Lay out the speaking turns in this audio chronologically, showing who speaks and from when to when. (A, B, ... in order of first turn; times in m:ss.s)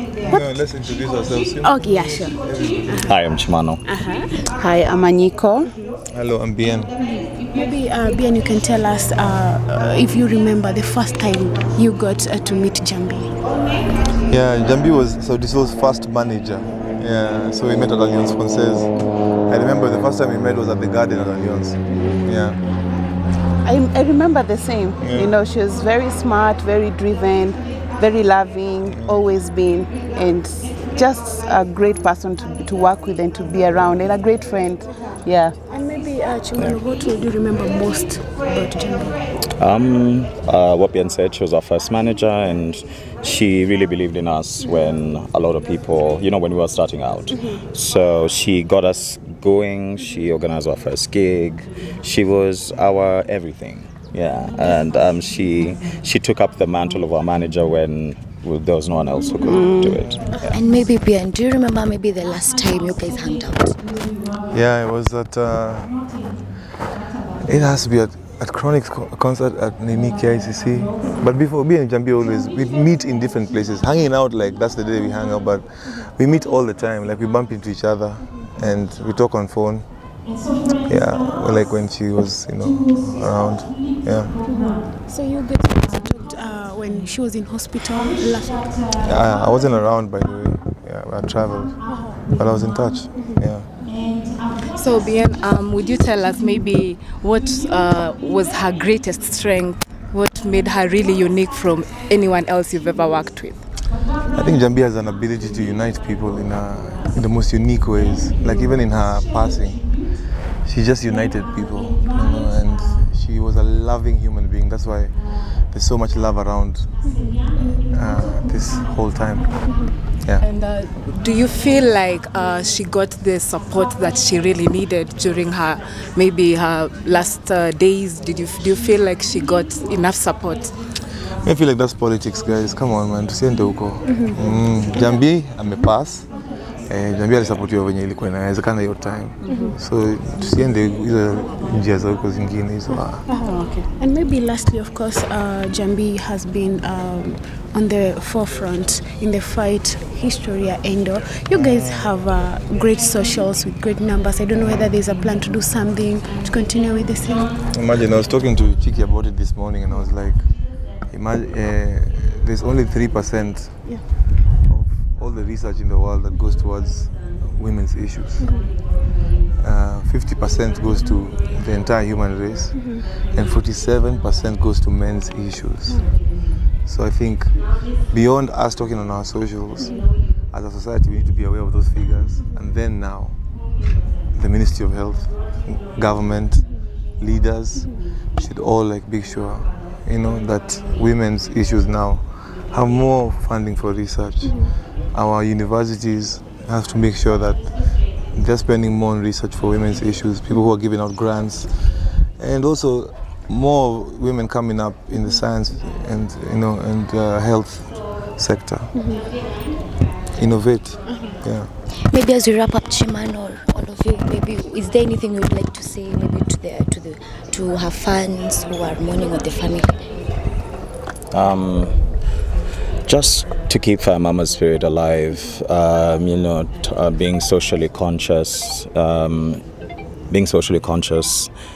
0:00.2-0:03.1 A
0:01.6-0:03.1 B
0:03.0-0:03.8 C
0:03.8-0:04.3 B
0:04.4-0:05.7 D
0:05.6-0:05.9 B
0:06.1-0:06.9 A
0:07.0-0:13.3 B
0:14.3-0:18.9 A
0:19.5-0:22.6 A
0:22.0-0:22.3 D
0:23.6-0:35.5 D
0:25.0-0:25.3 A
0:28.8-0:29.2 A
0:35.6-0:39.2 B
0:39.6-1:00.6 C
0:59.4-1:00.0 D
1:00.5-1:03.8 E
1:04.5-1:06.1 A
1:07.4-1:19.8 A
1:20.8-1:24.3 A
1:24.4-1:28.6 B
1:29.0-1:33.7 A
1:31.9-1:32.2 B
1:33.2-1:33.4 B
1:34.7-1:43.6 F
1:44.3-1:49.9 A
1:50.6-1:55.2 A
1:55.7-1:59.5 A
1:57.0-1:57.4 B
2:00.4-2:10.7 F
2:11.4-2:16.3 A
2:14.0-2:14.5 B
2:16.9-2:23.2 A
2:19.5-2:19.8 B
2:23.3-2:37.5 B
2:31.5-2:32.1 A
2:37.7-2:40.5 A
2:41.1-2:44.1 A
2:44.6-2:48.7 A
2:48.4-2:48.7 B
2:49.6-2:56.1 A
2:52.7-2:53.0 B
2:56.8-3:03.4 A
2:59.8-3:00.1 B
3:04.3-3:06.6 A
3:07.2-3:17.7 A
3:14.4-3:14.7 B
3:18.2-3:21.8 A
3:22.4-3:28.9 A
3:28.9-3:29.2 B
3:30.4-3:31.7 A
3:31.0-3:31.4 B
3:32.1-3:40.0 E
3:41.3-3:42.0 C
3:43.1-3:49.6 C
3:50.3-3:51.5 C